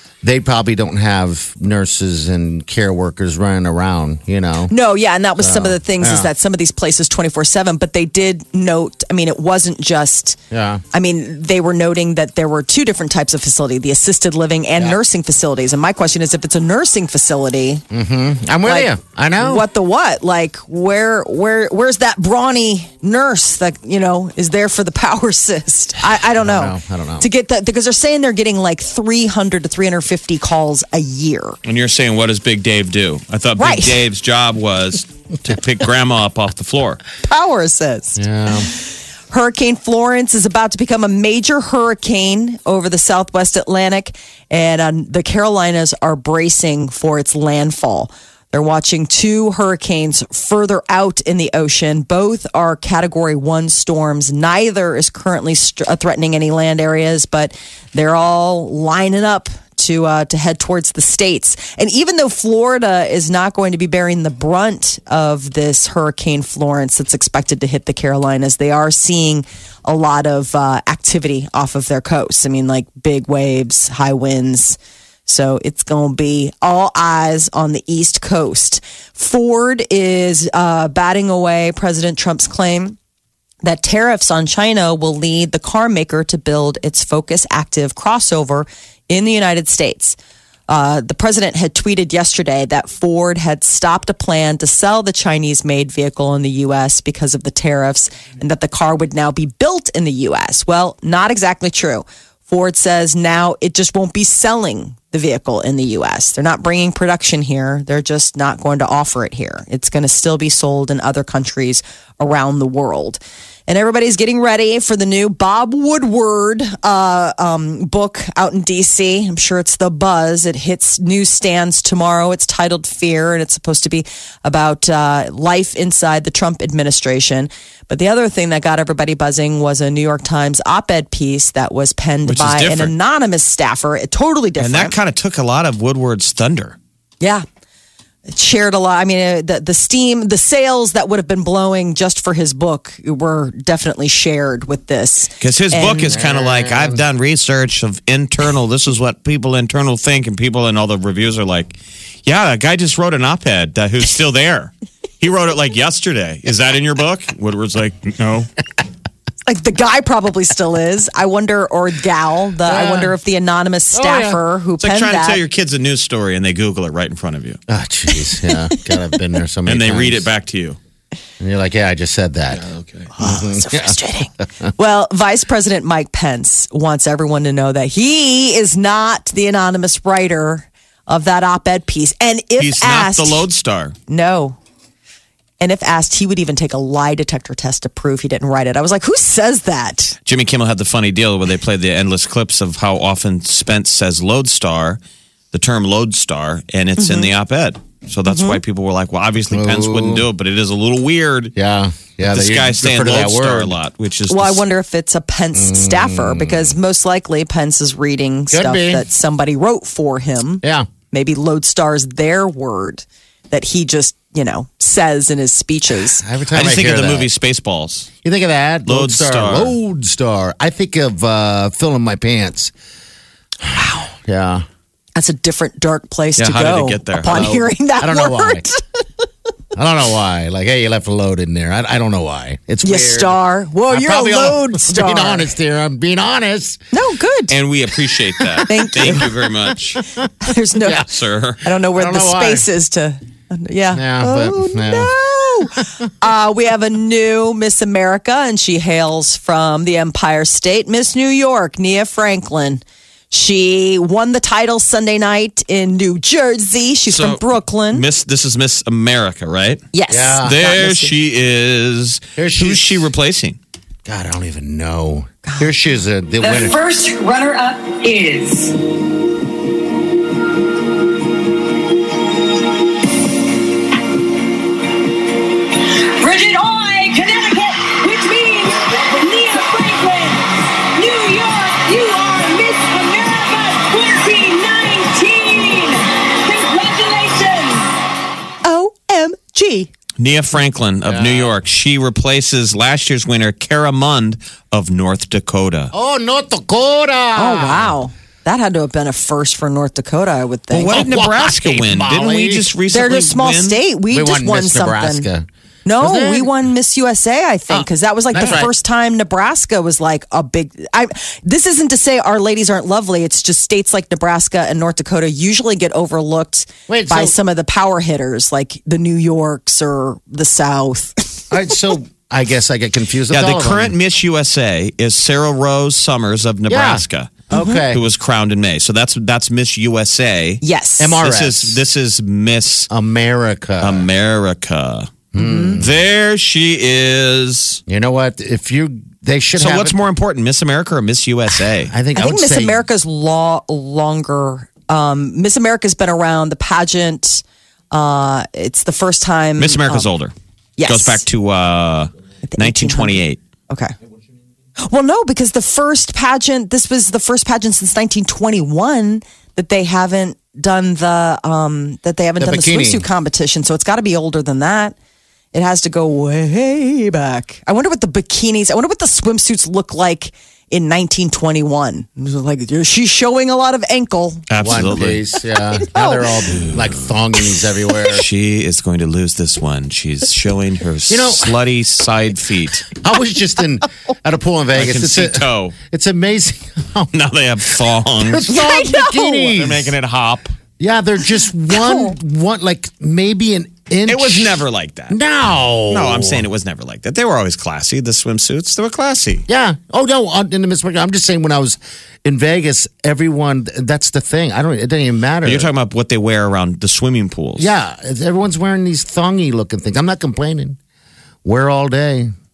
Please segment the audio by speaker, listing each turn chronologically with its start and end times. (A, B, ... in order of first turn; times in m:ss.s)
0:00.2-0:04.7 A
0:04.7-0:10.4 B
0:05.4-0:06.3 A
0:10.5-0:10.8 A
0:10.9-0:17.8 B
0:17.9-0:19.7 A
0:18.7-0:31.6 B
0:26.4-0:27.3 A
0:31.6-0:37.0 C
0:33.6-0:34.0 B
0:37.3-1:23.0 B
0:38.2-0:38.7 A
1:23.6-1:30.2 B
1:30.7-2:15.0 B
2:12.3-2:12.9 C
2:14.6-2:16.8 C
2:18.3-2:26.1 B
2:25.4-2:31.7 C
2:25.9-2:27.0 A
2:32.2-2:38.5 C
2:39.5-2:45.4 B
2:42.7-2:43.1 A
2:43.9-2:44.4 A
2:44.8-2:47.6 C
2:47.7-2:50.3 A
2:48.5-2:48.8 B
2:49.7-2:50.8 C
2:51.4-2:52.6 A
2:52.6-2:53.1 C
2:53.2-2:54.0 A
2:53.2-3:03.5 B
3:02.6-3:04.0 C
3:04.1-3:04.6 B
3:05.6-3:10.2 B
3:10.3-3:15.0 C
3:15.5-3:21.5 C
3:17.0-3:17.3 B
3:18.3-3:18.6 B
3:19.5-3:20.2 A
3:21.6-3:23.8 A
3:22.3-3:24.6 C
3:24.3-3:36.2 B
3:25.6-3:26.8 A
3:28.5-3:29.0 A
3:30.6-3:30.9 A
3:36.2-3:37.3 A
3:36.5-3:38.1 C
3:38.2-3:42.7 A
3:38.9-3:39.8 C
3:43.6-3:44.7 A
3:45.2-3:49.0 B
3:46.4-3:47.5 C
3:47.3-3:48.7 A
3:49.8-3:53.4 A
3:52.8-3:55.5 B
3:53.9-3:56.8 A
3:56.9-3:57.6 B
3:57.5-4:00.0 C
3:58.6-3:59.3 B
4:00.4-4:01.0 B
4:00.8-4:01.1 A
4:01.0-4:01.6 C
4:01.6-4:18.0 B
4:01.9-4:02.7 A
4:03.9-4:05.1 A
4:17.1-4:19.8 C
4:19.9-4:21.1 B
4:20.1-4:20.7 A
4:20.4-4:23.6 C
4:22.4-4:23.1 A
4:24.1-4:26.8 A
4:25.4-4:25.7 B
4:26.4-4:28.8 D
4:35.7-4:47.9 D
4:48.6-4:49.9 B
4:50.2-4:55.9 C
4:51.1-4:51.5 A
4:55.9-4:58.0 A
4:57.4-5:01.0 B
5:00.7-5:03.8 C
5:00.9-5:02.7 A
5:02.9-5:05.3 B
5:04.1-5:05.5 A
5:05.8-5:21.7 B
5:06.0-5:06.5 A
5:07.7-5:08.7 A
5:16.9-5:17.4 A
5:21.5-5:24.0 A
5:23.3-5:30.6 C
5:26.7-5:28.0 A
5:27.5-5:27.8 B
5:30.6-5:31.2 B
5:31.0-5:31.8 A
5:31.2-5:32.9 C
5:32.9-5:34.1 A
5:33.8-5:35.3 C
5:35.3-5:35.9 A
5:35.4-5:35.8 B
5:35.8-5:37.8 C
5:37.9-5:40.0 A
5:39.6-5:41.9 C
5:41.8-5:42.8 A
5:42.2-5:50.1 B
5:49.6-5:50.3 C
5:50.8-5:51.2 B
5:50.9-5:53.4 C
5:52.5-5:53.9 B
5:54.8-6:05.0 B
6:02.4-6:03.1 A
6:05.5-6:14.5 B
6:14.5-6:15.2 C
6:14.6-6:18.2 A
6:15.8-6:16.2 B
6:16.5-6:17.0 C
6:18.1-6:22.9 C
6:21.1-6:21.6 A
6:22.9-6:27.1 A
6:24.8-6:25.8 C
6:27.1-6:28.5 C
6:27.8-6:29.9 A
6:28.5-6:29.5 B
6:29.5-6:30.5 C
6:30.8-6:36.5 A
6:31.7-6:32.2 B
6:34.1-6:35.2 C
6:35.9-6:39.4 C
6:39.5-6:45.7 A
6:45.4-6:47.7 C
6:47.6-6:50.8 A
6:51.4-6:52.3 A